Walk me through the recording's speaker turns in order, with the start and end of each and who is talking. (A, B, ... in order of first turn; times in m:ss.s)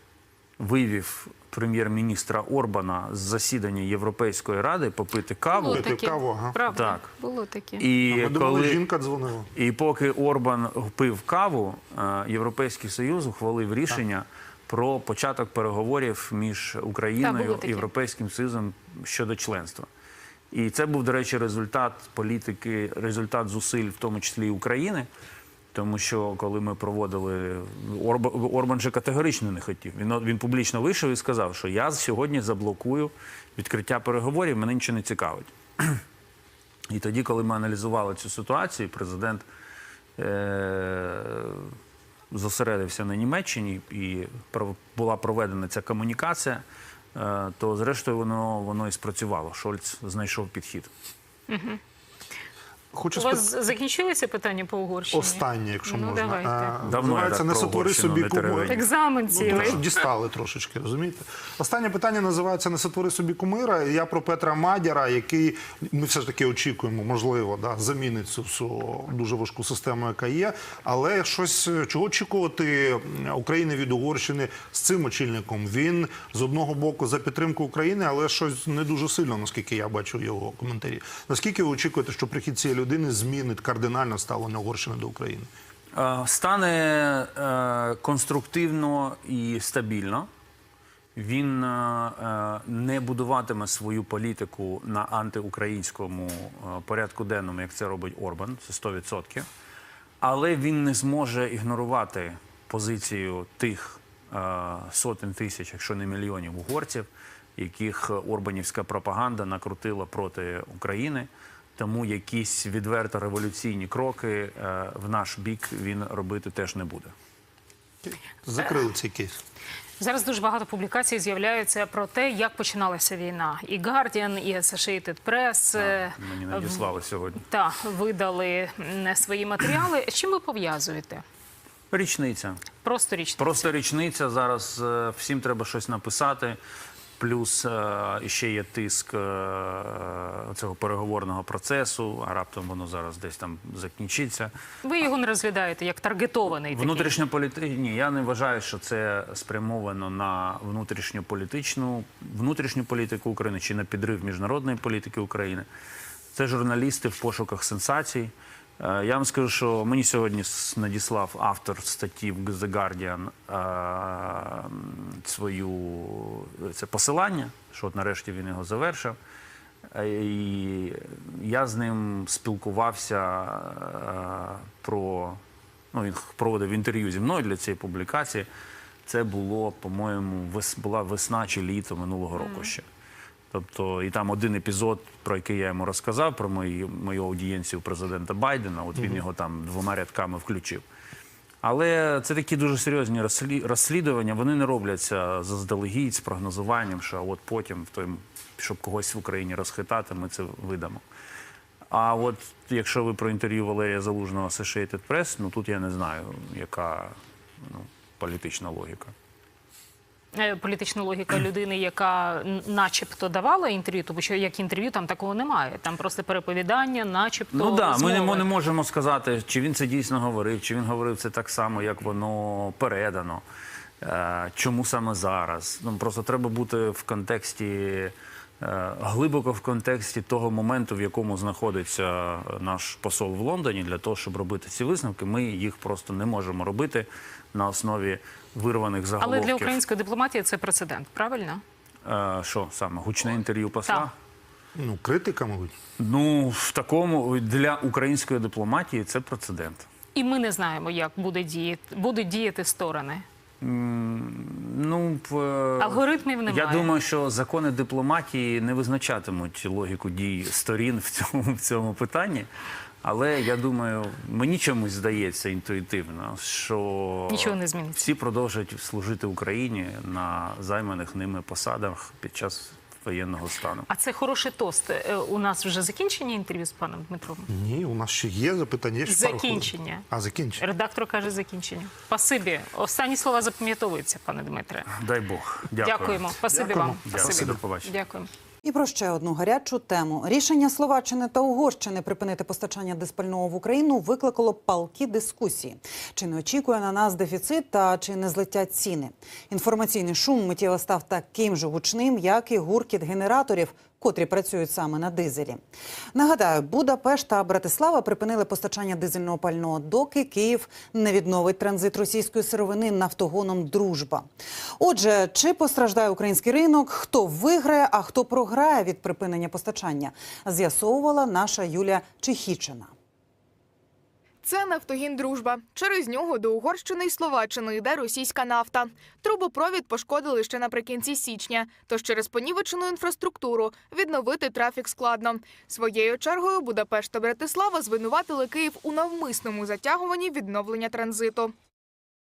0:00.6-0:05.9 A
0:05.5-0:07.9 B
0:05.6-0:06.6 C
0:06.7-0:07.1 A
0:07.8-0:08.8 A
0:08.1-0:09.5 C
0:09.5-0:19.9 A
0:17.2-0:17.9 B
0:20.5-0:25.1 A
0:25.7-0:36.0 A
0:36.9-0:39.4 A
0:40.2-0:41.7 A
0:42.3-0:46.6 A
0:47.1-0:50.9 A
0:51.5-0:51.8 B
0:52.9-0:53.5 C
0:53.1-0:56.8 B
0:55.1-1:25.5 C
0:56.8-0:58.8 A
0:58.7-0:59.8 B
0:59.4-0:59.8 A
1:25.9-1:30.3 A
1:31.2-1:39.5 A
1:40.2-1:57.1 A
1:58.0-1:59.4 C
2:00.0-2:11.2 B
2:05.7-2:07.4 A
2:11.9-2:12.6 A
2:12.8-2:13.7 B
2:13.4-2:16.6 A
2:17.2-2:24.5 A
2:24.8-2:27.2 B
2:26.7-2:35.7 A
2:36.3-2:49.2 A
2:49.9-2:55.4 A
2:55.9-2:58.5 A
2:59.0-3:02.8 A
3:03.5-3:10.8 A
3:11.6-3:21.0 A
3:21.9-3:29.1 A
3:30.3-3:38.5 B
3:37.5-3:43.4 A
3:44.0-3:59.8 A
3:59.2-4:01.6 B
4:02.0-4:04.1 A
4:03.8-4:04.1 B
4:04.7-4:05.7 C
4:06.0-4:09.9 A
4:10.1-4:13.2 B
4:13.6-4:22.5 A
4:15.8-4:16.9 B
4:23.0-4:33.9 A
4:27.3-4:28.1 B
4:33.9-4:37.5 B
4:37.5-4:40.6 C
4:39.0-4:45.1 B
4:44.9-4:46.3 A
4:45.8-4:48.3 B
4:46.5-4:47.5 C
4:47.0-4:47.9 A
4:48.6-5:05.6 D
5:06.1-5:14.2 D
5:14.8-5:22.9 D
5:24.4-5:41.5 E